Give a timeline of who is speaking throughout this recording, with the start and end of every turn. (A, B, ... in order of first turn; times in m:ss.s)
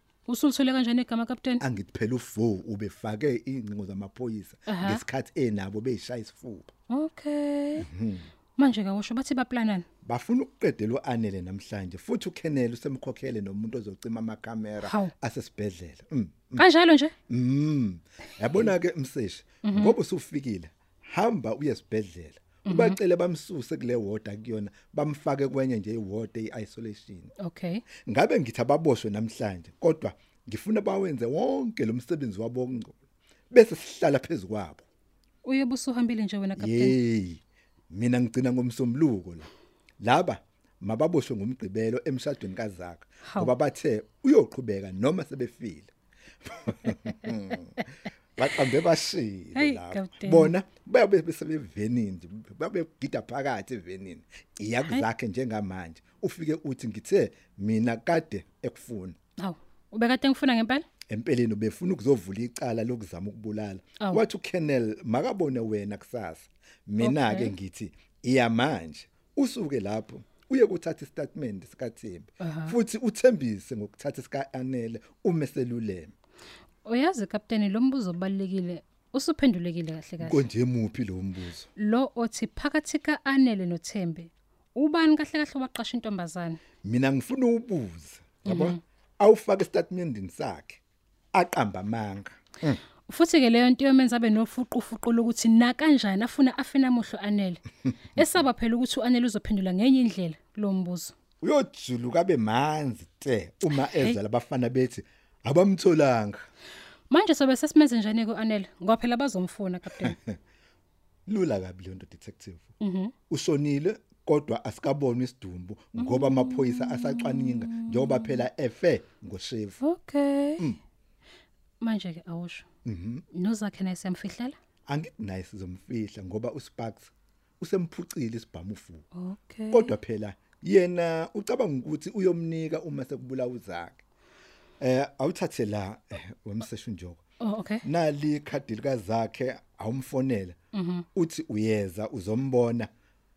0:00.2-0:01.6 A
0:01.6-0:06.7 B
0:04.7-0:05.0 A
0:06.9-0:07.9 A
0:07.8-0:08.3 B
0:08.6-0:09.8 A
0:10.0-0:16.6 B
0:14.8-0:15.1 A
0:16.6-0:17.1 A
0:17.3-0:27.3 B
0:19.6-0:19.9 A
0:22.6-0:23.0 A
0:27.4-0:27.8 A
0:28.1-0:32.9 B
0:33.5-0:34.8 B
0:35.4-0:37.0 A
0:36.6-0:37.4 B
0:37.9-0:39.5 B
0:40.0-0:45.9 B
0:43.2-0:43.5 A
0:46.4-0:47.7 B
0:48.4-0:59.2 B
0:49.5-0:50.5 A
0:59.4-1:00.8 A
1:01.1-1:16.1 B
1:07.0-1:07.5 A
1:12.4-1:12.8 A
1:16.8-1:20.4 A
1:20.2-1:21.7 B
1:21.8-1:26.6 A
1:26.8-1:30.8 B
1:28.4-1:28.8 A
1:31.3-1:32.8 B
1:33.1-1:37.6 A
1:38.2-1:41.1 A
1:41.4-1:46.5 B
1:43.9-1:44.2 A
1:47.1-1:50.2 A
1:49.9-1:50.4 B
1:51.3-1:52.7 B
1:52.8-1:53.1 A
1:53.3-1:59.8 B
1:56.0-1:58.3 A
1:59.8-2:00.7 A
2:01.8-2:02.6 A
2:02.8-2:03.2 B
2:03.3-2:04.5 A
2:04.9-2:09.0 B
2:09.1-2:09.9 A
2:09.7-2:14.0 B
2:14.8-2:17.2 B
2:17.4-2:17.8 A
2:17.8-2:20.6 B
2:20.7-2:21.0 A
2:21.1-2:22.9 B